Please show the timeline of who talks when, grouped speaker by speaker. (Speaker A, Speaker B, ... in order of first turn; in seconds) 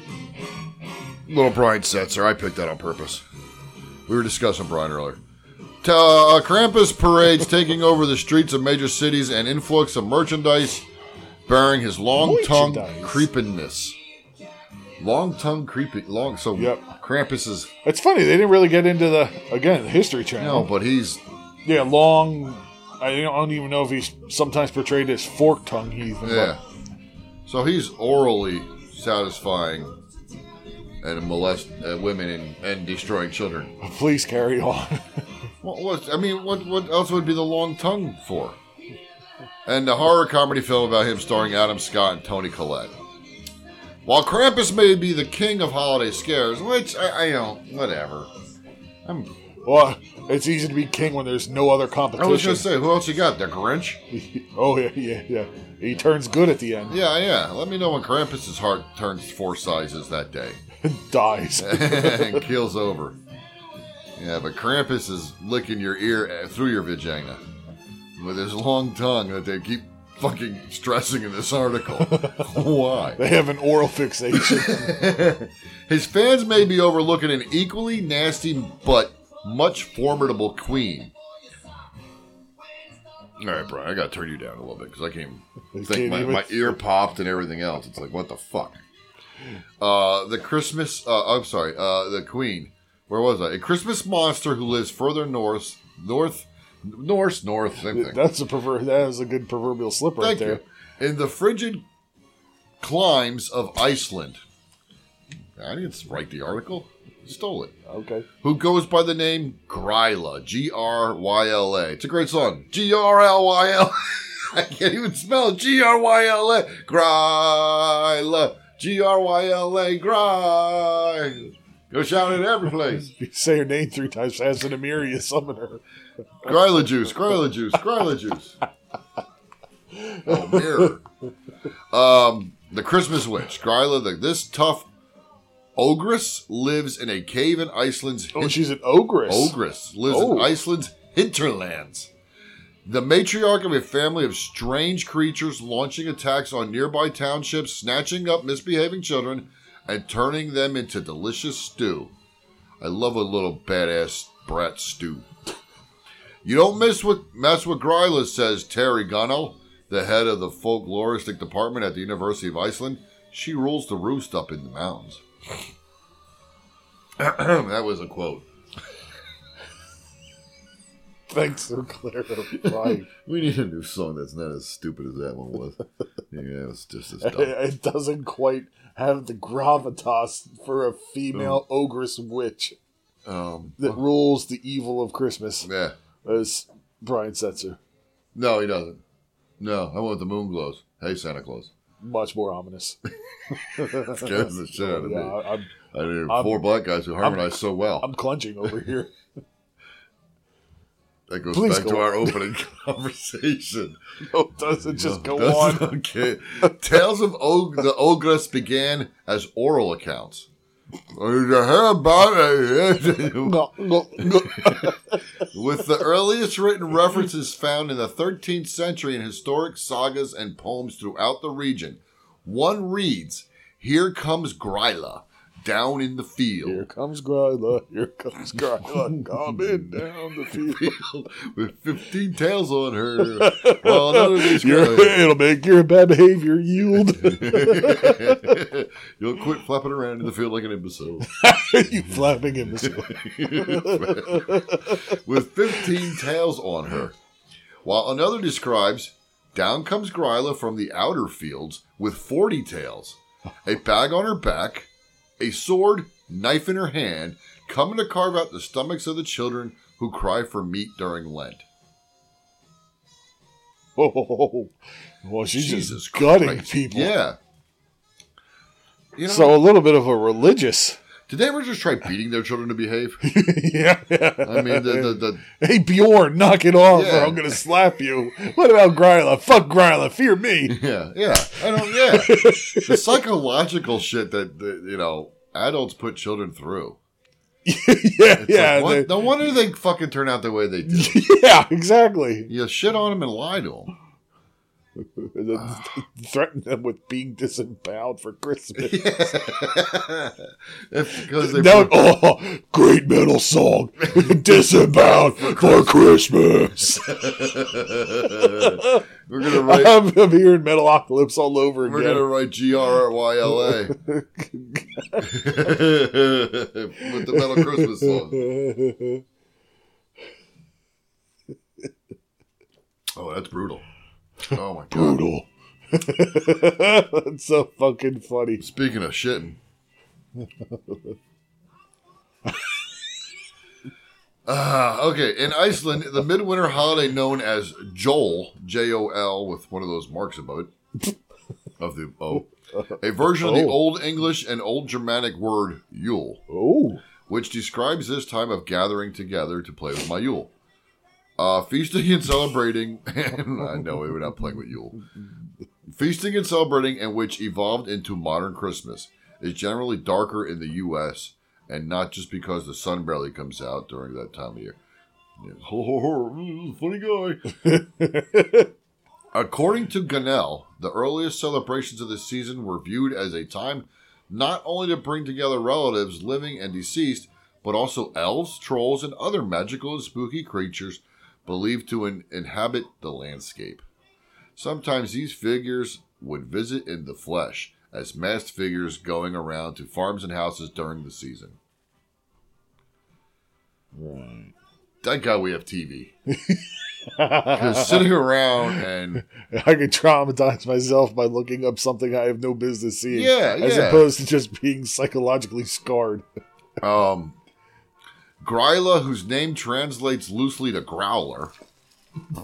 Speaker A: 1.2-3.2, 4.1-5.2, 5.8-10.8, 11.4-13.9, 15.0-17.7, 20.4-21.2, 26.2-26.6, 27.4-29.9, 31.0-33.7, 35.6-38.6, 39.6-42.9, 44.0-48.3, 49.0-49.3, 52.1-54.0, 56.9-60.6, 61.6-63.2, 64.2-67.4, 68.2-73.2, 74.3-81.1, 83.4-88.8, 89.8-98.2, 100.2-101.8, 102.8-104.4, 105.6-107.7, 108.4-123.1, 126.4-128.6, 130.2-131.0, 131.9-134.9, 135.8-138.7, 139.2-142.1, 142.8-152.1, 152.8-155.2, 156.4-165.2, 167.2-168.4, 172.5-175.8, 176.3-177.5, 181.3-181.6, 183.2-184.0, 185.6-185.9, 188.3-189.0, 189.6-191.7, 193.8-195.4, 195.9-198.1, 201.3-204.0, 204.9-210.5, 211.1-214.9, 215.5-226.9, 229.2-235.3, 237.1-241.3, 242.8-247.2, 247.8-261.6, 265.5-267.4, 269.1-269.6, 271.3-273.2, 274.4-275.4, 276.9-277.6, 280.6-287.0, 288.2-291.2, 292.5-293.9, 295.5-295.9, 298.8-302.1, 304.1-305.9, 307.0-310.0, 311.8-313.9, 315.2-318.5, 323.1-323.8, 324.5-325.2, 328.6-329.6, 334.4-340.7, 341.8-346.4, 347.3-350.5, 351.4-355.0, 355.9-364.8, 365.4-367.4, 369.3-383.8, 384.6-391.6, 395.0-396.1, 397.5-399.2, 403.1-404.1, 406.8-407.4, 408.4-411.5
Speaker B: 12.2-13.3, 16.5-16.9, 17.8-20.7, 21.6-26.6, 33.8-35.2, 49.6-52.7, 54.1-57.0, 60.8-62.4, 72.0-72.5, 73.2-74.9, 85.7-86.8, 97.9-100.6, 107.9-108.2, 123.0-125.8, 129.9-130.9, 138.3-139.6, 140.1-140.5, 171.3-173.1, 177.2-182.8, 183.8-185.7, 186.2-187.8, 192.0-193.0, 193.6-196.6, 197.2-199.1, 201.5-202.4, 204.3-205.9, 213.4-215.2, 226.6-230.9, 233.2-238.5, 241.3-245.1, 245.8-246.2, 264.0-264.7, 265.2-267.1, 269.2-271.0, 273.2-280.8, 281.8-283.0, 287.6-289.2, 290.8-292.5, 295.0-299.2, 301.4-307.2, 308.4-312.2, 313.6-315.3, 317.0-319.2, 324.9-328.6, 330.4-331.0, 342.7-343.8, 346.5-347.0, 367.6-368.7, 393.9-394.5, 396.3-398.1, 398.7-406.2